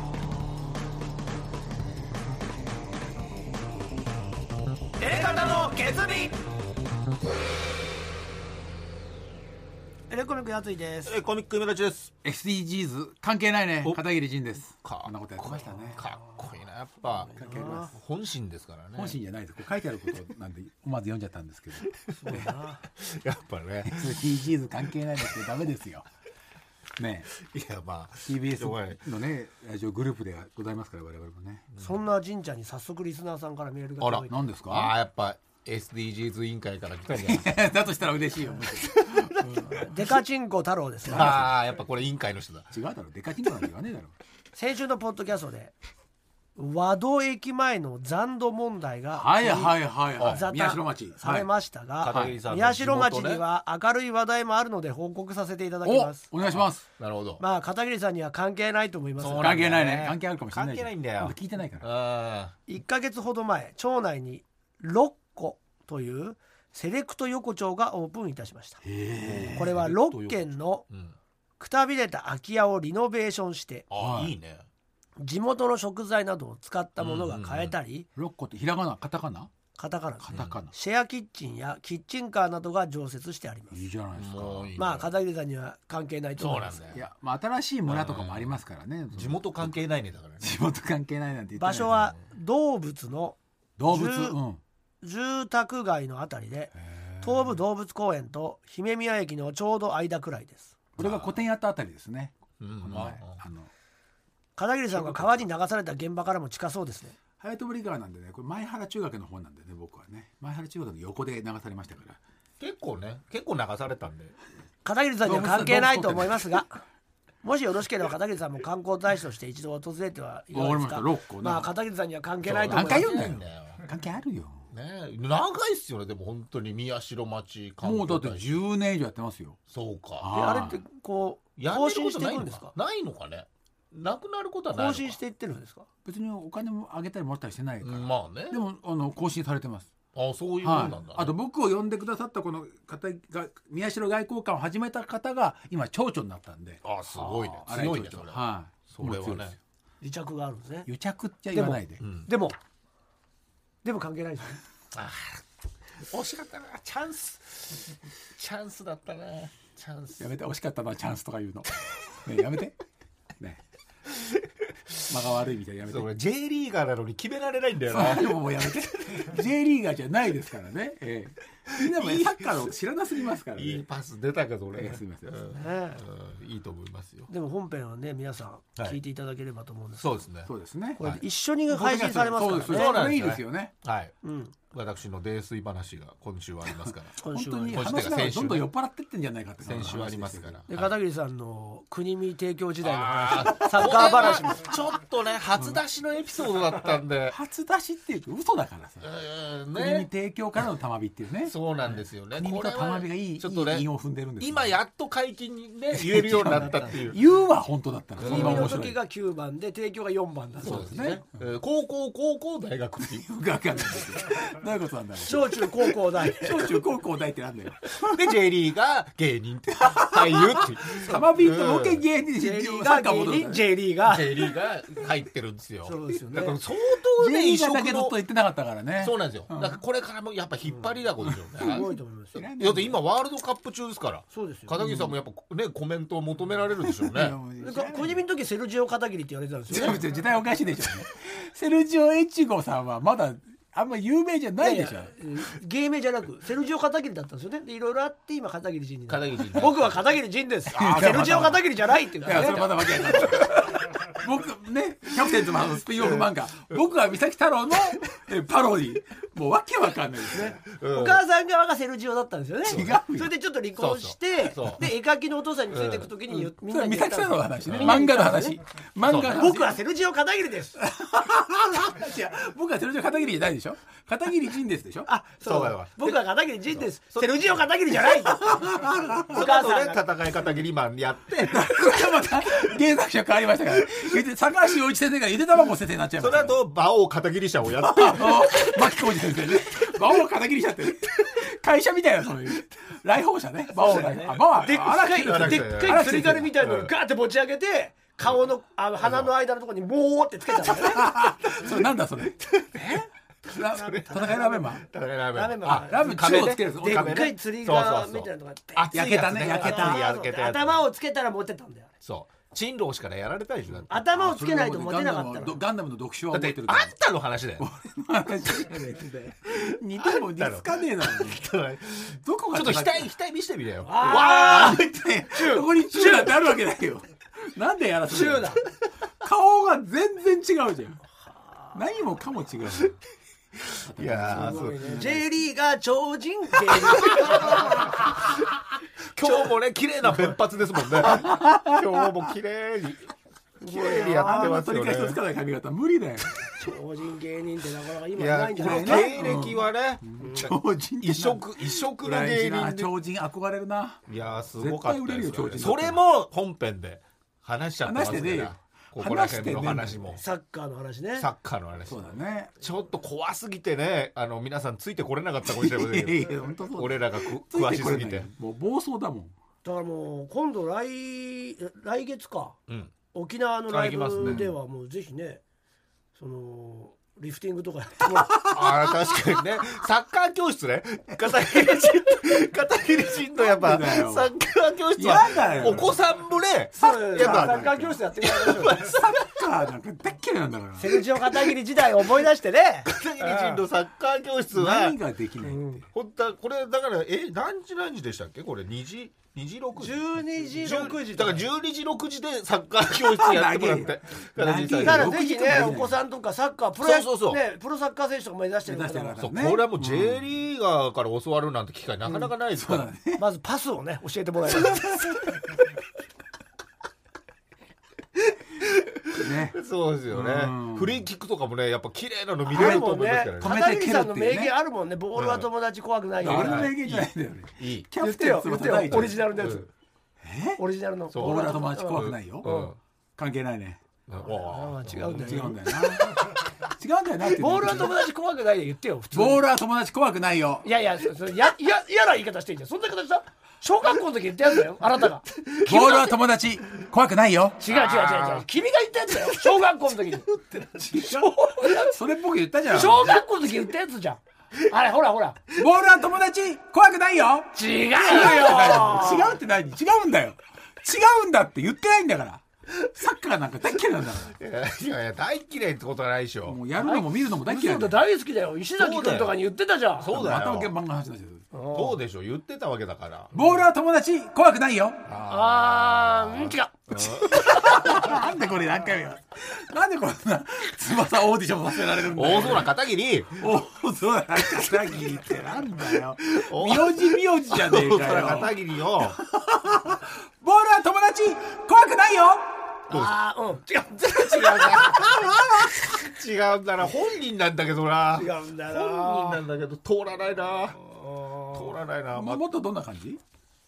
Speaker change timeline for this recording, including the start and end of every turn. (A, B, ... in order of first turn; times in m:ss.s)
0:05.0-0:06.4 A
0:10.1-0:11.2 A
0:11.0-0:12.1 B
0:12.2-0:16.1 C
0:14.8-0:19.2 B
0:17.2-0:17.9 A
0:17.4-0:17.9 C
0:19.0-0:22.4 C
0:21.9-0:24.2 B
0:22.1-0:22.8 A
0:23.8-0:26.1 C
0:27.0-0:27.3 C
0:27.4-0:29.0 B
0:28.3-0:31.7 C
0:31.7-0:32.0 B
0:31.8-0:34.4 A
0:34.0-0:37.5 B
0:34.3-0:35.0 C
0:37.1-0:39.9 C
0:38.7-0:39.8 B
0:39.7-0:41.5 A
0:41.0-0:41.5 C
0:41.1-0:42.7 B
0:42.7-0:44.1 C
0:44.6-0:45.8 A
0:46.6-0:56.2 A
0:49.2-0:51.5 C
0:50.2-0:50.4 B
0:52.0-0:53.4 B
0:52.1-0:52.4 C
0:55.8-0:56.8 C
0:56.4-0:57.4 B
0:57.4-0:59.8 A
0:59.2-1:02.6 B
0:59.4-1:01.9 C
1:02.7-1:08.8 A
1:08.8-1:09.8 C
1:09.2-1:11.2 B
1:09.5-1:10.8 A
1:11.6-1:13.8 A
1:13.9-1:14.7 B
1:13.9-1:14.4 C
1:15.2-1:18.1 A
1:17.0-1:17.8 B
1:18.2-1:19.5 C
1:19.8-1:23.8 A
1:20.2-1:20.7 C
1:23.7-1:24.7 C
1:24.2-1:25.1 B
1:24.8-1:26.8 A
1:26.4-1:27.0 B
1:26.9-1:29.8 C
1:27.9-1:28.6 B
1:29.1-1:30.6 B
1:30.4-1:32.1 C
1:31.6-1:34.4 A
1:33.8-1:34.6 C
1:35.0-1:40.8 A
1:36.7-1:37.6 C
1:41.0-1:41.4 B
1:41.0-1:43.7 C
1:42.6-1:43.4 B
1:44.6-1:47.2 A
1:45.0-1:45.4 C
1:47.4-1:52.2 C
1:52.6-1:54.4 B
1:54.8-1:56.8 A
1:55.2-1:56.6 C
1:57.4-2:03.3 A
2:00.5-2:01.7 C
2:02.4-2:03.8 B
2:02.6-2:04.7 C
2:04.7-2:08.5 B
2:07.8-2:09.6 C
2:09.7-2:10.3 B
2:10.2-2:10.8 C
2:10.3-2:12.7 A
2:11.6-2:15.2 B
2:14.7-2:15.9 A
2:16.0-2:19.9 C
2:17.8-2:18.6 B
2:20.2-2:21.4 B
2:20.6-2:29.6 C
2:26.8-2:29.6 B
2:30.0-2:30.9 A
2:30.9-2:32.0 C
2:31.5-2:32.6 A
2:32.0-2:32.3 B
2:33.8-2:34.6 A
2:34.9-2:35.4 B
2:36.1-2:40.2 B
2:40.2-2:42.8 C
2:45.1-2:46.1 C
2:45.9-2:48.4 B
2:47.9-2:53.8 C
2:51.7-2:52.6 B
2:53.5-2:57.3 B
2:54.7-2:55.4 C
2:55.6-2:56.0 A
2:57.3-3:00.2 A
3:00.0-3:01.2 B
3:00.5-3:01.0 C
3:01.0-3:03.0 A
3:01.7-3:03.7 C
3:02.4-3:04.2 B
3:04.2-3:04.6 A
3:04.7-3:07.2 B
3:06.8-3:10.7 C
3:07.2-3:07.8 A
3:07.7-3:08.7 B
3:09.6-3:10.9 B
3:10.7-3:14.6 A
3:12.8-3:17.4 B
3:17.3-3:19.1 C
3:19.0-3:20.1 B
3:19.7-3:24.7 C
3:21.4-3:23.9 B
3:24.4-3:27.2 B
3:25.9-3:29.0 C
3:28.2-3:28.8 B
3:28.2-3:31.1 A
3:30.6-3:33.3 B
3:30.7-3:31.2 C
3:33.0-3:38.4 C
3:35.3-3:36.7 A
3:38.0-3:42.0 B
3:39.8-3:43.7 C
3:42.4-3:44.5 A
3:44.0-3:48.2 B
3:45.8-3:46.6 A
3:47.1-3:49.8 C
3:49.0-3:57.4 B
3:51.2-3:53.0 C
3:51.6-3:52.5 A
3:54.3-3:54.8 A
3:54.8-3:55.2 C
3:56.8-3:58.2 C
3:57.6-4:00.0 A
3:59.7-4:05.1 C
4:04.6-4:13.8 A
4:09.1-4:10.0 B
4:10.7-4:20.6 C
4:12.6-4:13.3 B
4:16.0-4:16.8 B
4:20.3-4:28.6 A
4:20.7-4:21.2 B
4:22.6-4:23.3 C
4:22.7-4:22.9 B
4:23.8-4:24.8 B
4:25.7-4:26.1 B
4:26.3-4:29.8 C
4:27.7-4:28.0 B
4:29.0-4:29.4 B
4:29.2-4:30.8 A
4:30.8-4:35.1 C
4:35.1-4:38.6 A
4:35.4-4:36.2 B
4:36.8-4:37.5 B
4:38.4-4:39.4 C
4:39.3-4:40.0 A
4:39.3-4:41.8 B
4:41.4-4:46.6 C
4:46.2-4:48.8 B
4:47.8-4:56.5 C
4:53.8-5:01.2 A
4:55.2-4:56.9 B
4:59.0-4:59.3 B
5:00.8-5:02.5 C
5:01.5-5:01.8 B
5:02.4-5:10.8 B
5:03.6-5:04.8 C
5:03.7-5:11.9 A
5:05.6-5:07.3 C
5:08.9-5:10.0 C
5:12.0-5:13.9 B
5:13.9-5:15.6 A
5:14.1-5:16.9 C
5:16.3-5:17.7 B
5:17.6-5:21.4 C
5:19.5-5:25.2 B
5:22.1-5:23.1 C
5:23.8-5:26.4 A
5:24.0-5:28.6 C
5:28.1-5:28.6 A
5:29.2-5:31.0 C
5:31.7-5:33.0 C
5:33.7-5:34.8 B
5:33.8-5:35.3 C
5:34.3-5:38.1 A
5:36.8-5:38.4 B
5:37.1-5:37.6 C
5:39.1-5:43.1 B
5:40.8-5:42.3 C
5:43.6-5:44.6 A
5:43.6-5:45.2 B
5:43.7-5:46.4 C
5:46.6-5:49.4 A
5:48.2-5:52.9 B
5:48.6-5:56.0 C
5:50.2-5:50.5 A
5:54.1-6:00.2 B
5:57.8-6:00.2 C
6:00.2-6:01.3 A
6:01.2-6:02.1 B
6:01.9-6:02.5 C
6:02.6-6:08.3 B
6:05.4-6:09.3 C
6:09.6-6:12.6 A
6:12.7-6:12.9 B
6:13.1-6:15.4 A
6:13.7-6:14.4 B
6:14.2-6:14.6 C
6:16.2-6:18.4 A
6:18.3-6:29.5 B
6:23.4-6:24.3 C
6:25.0-6:26.0 C
6:26.8-6:28.8 A
6:27.2-6:27.7 C
6:28.6-6:31.1 C
6:30.8-6:33.6 A
6:32.9-6:35.0 B
6:34.5-6:35.9 C
6:35.4-6:35.8 A
6:35.9-6:45.2 B
6:39.8-6:41.5 A
6:42.9-6:46.0 C
6:44.8-6:49.3 A
6:46.8-6:47.4 B
6:48.7-6:50.2 C
6:49.2-6:52.9 B
6:52.1-6:53.2 C
6:53.2-6:55.2 A
6:58.6-7:03.6 B
6:59.2-7:01.1 C
7:02.5-7:06.7 A
7:02.5-7:04.6 C
7:05.2-7:05.5 B
7:06.2-7:09.3 C
7:06.2-7:07.9 B
7:08.0-7:09.7 A
7:08.7-7:09.7 B
7:10.2-7:10.6 C
7:10.6-7:12.7 A
7:11.1-7:12.8 B
7:11.2-7:12.6 C
7:13.2-7:13.8 C
7:14.1-7:15.6 B
7:14.3-7:16.3 A
7:15.0-7:18.0 C
7:17.3-7:19.4 A
7:19.1-7:20.7 C
7:20.6-7:26.1 A
7:25.6-7:27.6 C
7:27.6-7:30.3 A
7:27.6-7:28.5 B
7:29.2-7:29.5 B
7:30.3-7:31.0 B
7:30.8-7:33.2 C
7:31.0-7:32.0 A
7:32.7-7:35.5 A
7:35.6-7:44.4 C
7:37.5-7:39.4 A
7:44.3-7:46.6 B
7:46.5-7:48.0 C
7:46.8-7:50.1 A
7:48.8-7:49.4 B
7:50.0-7:50.7 B
7:50.1-7:51.4 C
7:51.5-7:52.0 A
7:51.7-7:53.5 B
7:53.3-7:55.0 C
7:55.1-7:58.0 B
7:55.3-7:57.7 A
7:57.3-8:02.7 C
8:02.1-8:03.5 B
8:03.4-8:12.7 C
8:06.2-8:09.2 B
8:12.9-8:15.7 A
8:14.0-8:20.8 B
8:18.1-8:19.4 A
8:20.7-8:21.8 A
8:21.5-8:22.4 B
8:22.1-8:23.2 C